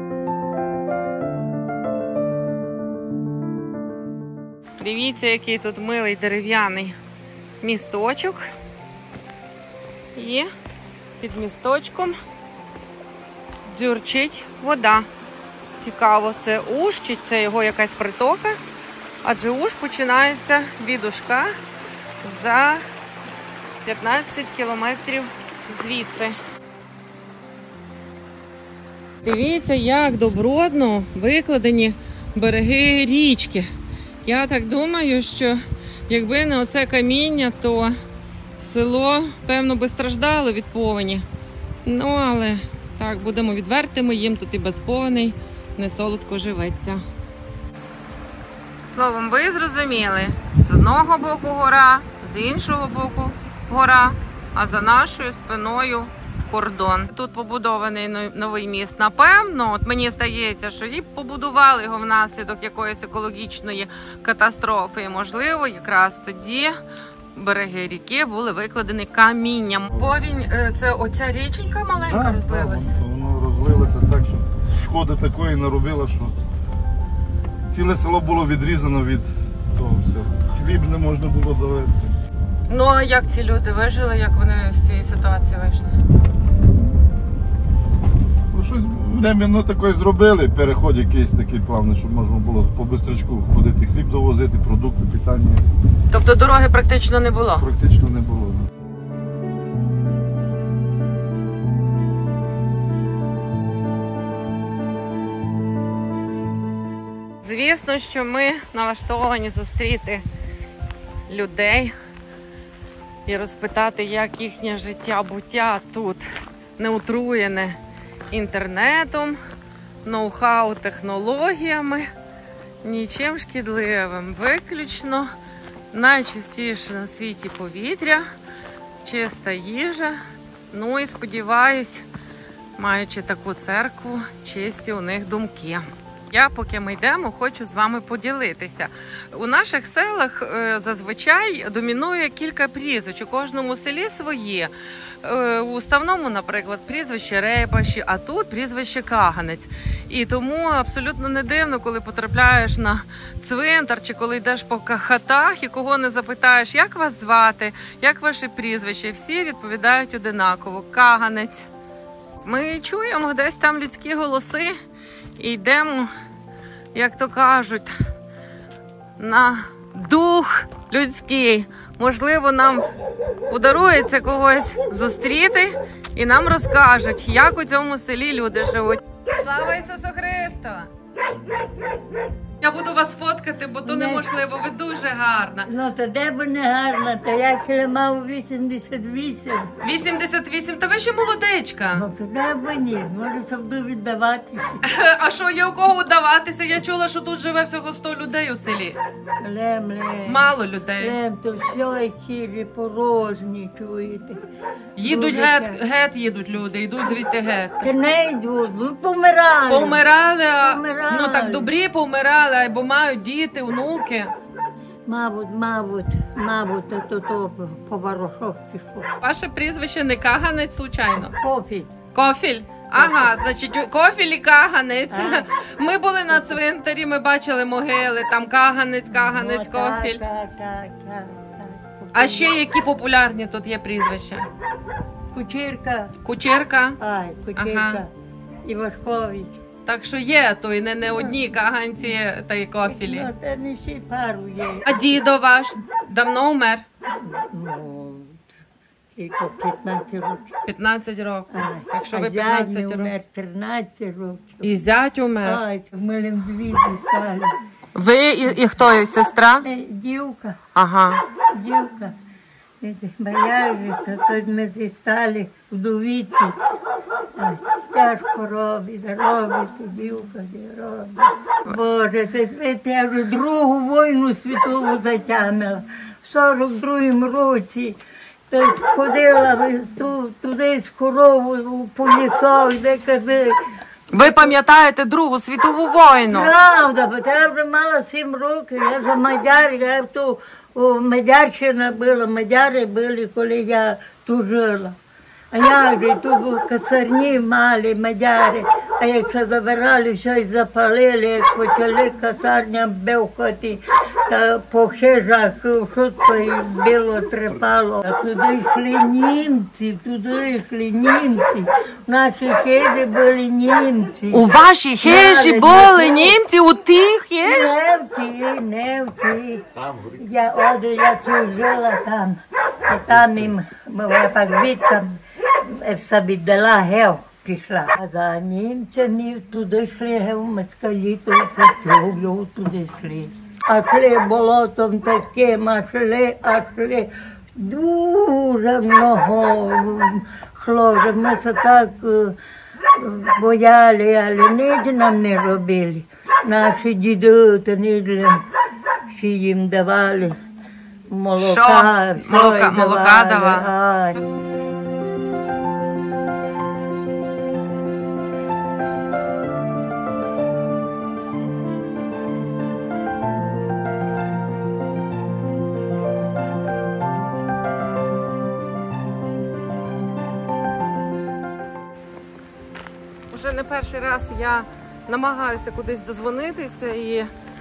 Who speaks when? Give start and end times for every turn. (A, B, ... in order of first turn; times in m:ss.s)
0:04.8-0:07.0 A
0:07.6-0:08.4 A
0:10.2-0:10.5 A
0:11.2-0:12.2 A
0:13.7-0:15.1 A
0:15.8-0:18.6 A
0:19.2-0:21.5 A
0:22.2-0:22.8 A
0:23.8-0:26.4 A
0:29.2-0:33.7 A
0:34.2-0:37.9 A
0:38.6-0:41.2 A
0:41.8-0:47.0 A
0:48.8-1:06.8 A
1:07.4-1:12.9 A
1:12.1-1:16.4 B
1:17.7-1:22.2 B
1:22.7-1:26.0 A
1:28.5-1:35.6 B
1:36.1-1:37.6 A
1:37.6-1:38.6 B
1:47.4-1:50.2 A
1:51.3-1:51.9 A
1:53.3-1:56.2 A
1:56.8-1:57.8 A
1:58.3-1:59.4 A
2:00.0-2:02.1 A
2:02.8-2:05.3 A
2:05.9-2:08.2 A
2:09.0-2:10.2 A
2:10.7-2:12.1 A
2:12.8-2:24.7 A
2:25.2-2:41.7 A
2:42.4-2:44.7 A
2:45.4-2:46.1 A
2:46.9-2:48.0 A
2:49.2-2:52.8 A
2:53.5-3:00.9 A
3:02.6-3:05.7 A
3:03.8-3:04.3 C
3:05.7-3:09.7 C
3:09.8-3:12.1 A
3:11.9-3:14.8 C
3:14.8-3:19.0 A
3:19.4-3:24.4 C
3:20.2-3:21.2 A
3:25.0-3:25.8 C
3:25.0-3:27.9 A
3:27.8-3:30.0 C
3:29.7-3:34.3 A
3:30.6-3:31.7 C
3:35.1-3:39.1 C
3:39.2-3:41.3 A
3:41.2-3:41.9 C
3:42.1-3:50.2 A
3:42.9-3:43.3 C
3:45.1-3:45.5 C
3:46.3-3:46.6 C
3:49.1-3:52.5 C
3:52.1-3:54.5 A
3:55.3-3:56.2 C
3:56.2-3:57.0 A
3:57.0-3:58.1 C
3:57.6-3:58.0 A
3:58.6-3:59.6 C
3:59.9-4:03.3 A
4:02.8-4:05.2 C
4:04.9-4:06.8 A
4:07.2-4:08.4 C
4:09.2-4:10.5 C
4:10.7-4:13.1 A
4:11.5-4:14.7 C
4:14.6-4:15.6 A
4:15.4-4:17.6 C
4:18.0-4:19.7 A
4:19.6-4:20.6 C
4:20.8-4:21.2 A
4:21.5-4:22.2 C
4:22.8-4:26.6 C
4:27.4-4:38.0 C
4:38.5-4:43.6 C
4:44.1-4:46.5 A
4:44.2-4:44.5 C
4:46.3-4:55.0 C
4:55.5-5:14.5 C
5:14.3-5:17.8 A
5:15.0-5:16.4 C
5:17.4-5:42.4 C
5:43.0-5:48.4 C
5:49.1-5:50.4 C
5:51.1-5:54.2 C
5:51.4-5:53.7 A
6:13.3-6:17.3 A